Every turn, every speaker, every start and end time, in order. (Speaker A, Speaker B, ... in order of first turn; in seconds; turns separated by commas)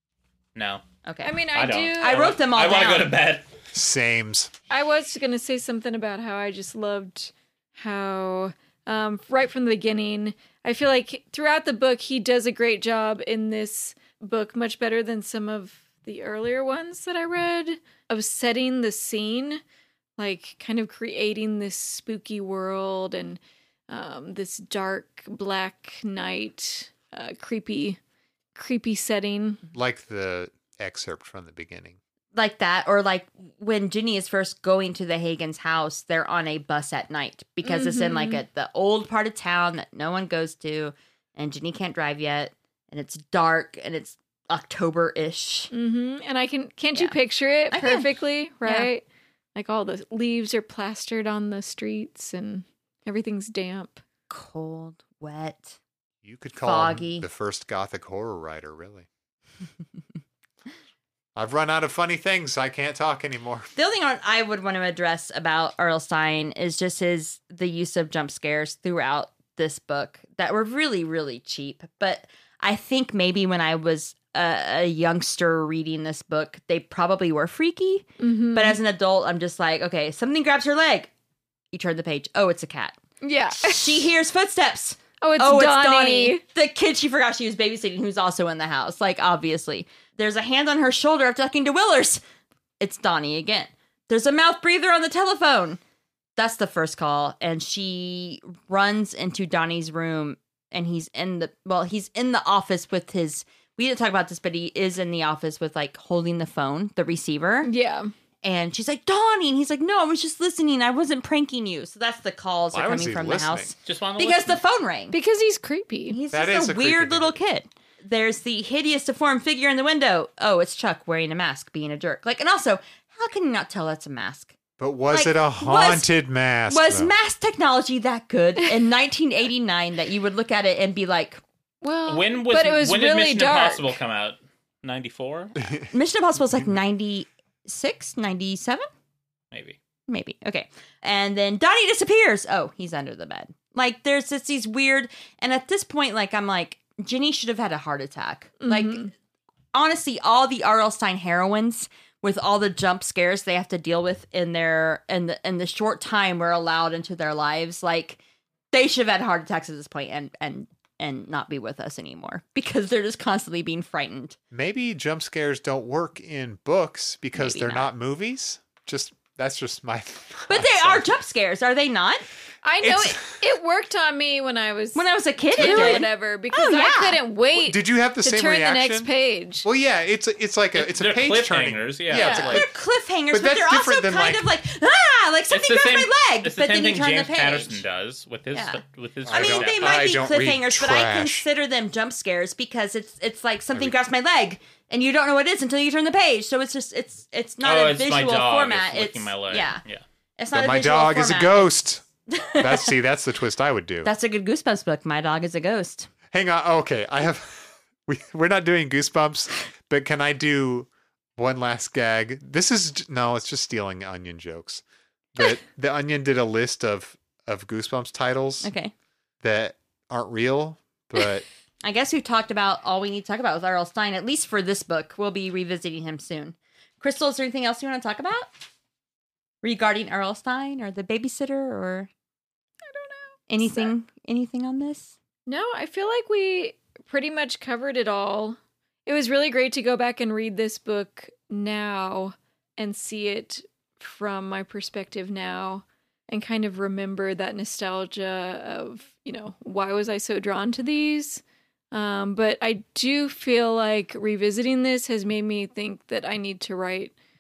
Speaker A: 0.5-0.8, Speaker B: 1.0-1.4, Speaker C: 1.2-2.3, Speaker A: 1.5-3.5, Speaker B: 2.0-3.1, Speaker D: 3.7-4.5, Speaker C: 4.7-19.6, Speaker C: 20.2-28.0, Speaker C: 28.5-29.6, Speaker D: 29.7-32.0, Speaker B: 32.3-45.7, Speaker C: 37.6-38.4, Speaker C: 45.7-54.0, Speaker B: 47.7-48.1, Speaker B: 48.6-48.9, Speaker B: 54.3-55.8, Speaker D: 56.2-59.1, Speaker B: 56.6-57.2, Speaker D: 61.4-63.7, Speaker B: 63.8-81.1, Speaker C: 78.2-78.8, Speaker B: 81.7-83.0, Speaker C: 83.2-84.1, Speaker B: 83.6-92.2, Speaker C: 85.2-86.4, Speaker B: 92.8-95.8, Speaker B: 96.3-107.7, Speaker C: 107.6-108.1, Speaker B: 108.4-115.1, Speaker D: 112.7-113.7, Speaker A: 113.8-114.6, Speaker C: 115.1-116.2, Speaker B: 116.1-124.6, Speaker D: 116.3-117.4, Speaker D: 124.8-127.1, Speaker B: 125.1-126.1, Speaker B: 126.7-131.4, Speaker C: 131.8-133.9, Speaker A: 132.1-135.5, Speaker B: 135.9-138.8, Speaker A: 139.5-139.8, Speaker B: 140.1-149.1, Speaker C: 148.6-149.1, Speaker B: 149.7-158.2, Speaker B: 158.7-164.4, Speaker D: 164.5-171.1, Speaker B: 167.3-167.9, Speaker B: 170.5-172.2, Speaker C: 172.6-179.7, Speaker D: 172.8-173.3, Speaker B: 174.9-177.2, Speaker D: 175.6-176.0, Speaker D: 177.5-179.1, Speaker D: 179.6-182.7, Speaker A: 180.7-182.7, Speaker C: 182.2-182.5, Speaker B: 182.2-187.8, Speaker D: 183.3-184.5, Speaker A: 185.5-190.1, Speaker B: 188.5-199.8, Speaker D: 189.2-191.4, Speaker A: 197.6-200.0, Speaker B: 200.4-201.7, Speaker D: 200.5-202.0, Speaker B: 202.3-202.9, Speaker D: 202.6-204.1, Speaker B: 204.0-206.1, Speaker D: 206.3-214.8, Speaker D: 215.3-218.7, Speaker B: 218.6-218.9, Speaker D: 219.4-221.4, Speaker B: 221.8-228.5, Speaker B: 229.6-232.1, Speaker C: 232.8-233.9, Speaker B: 233.5-235.1, Speaker C: 235.4-257.1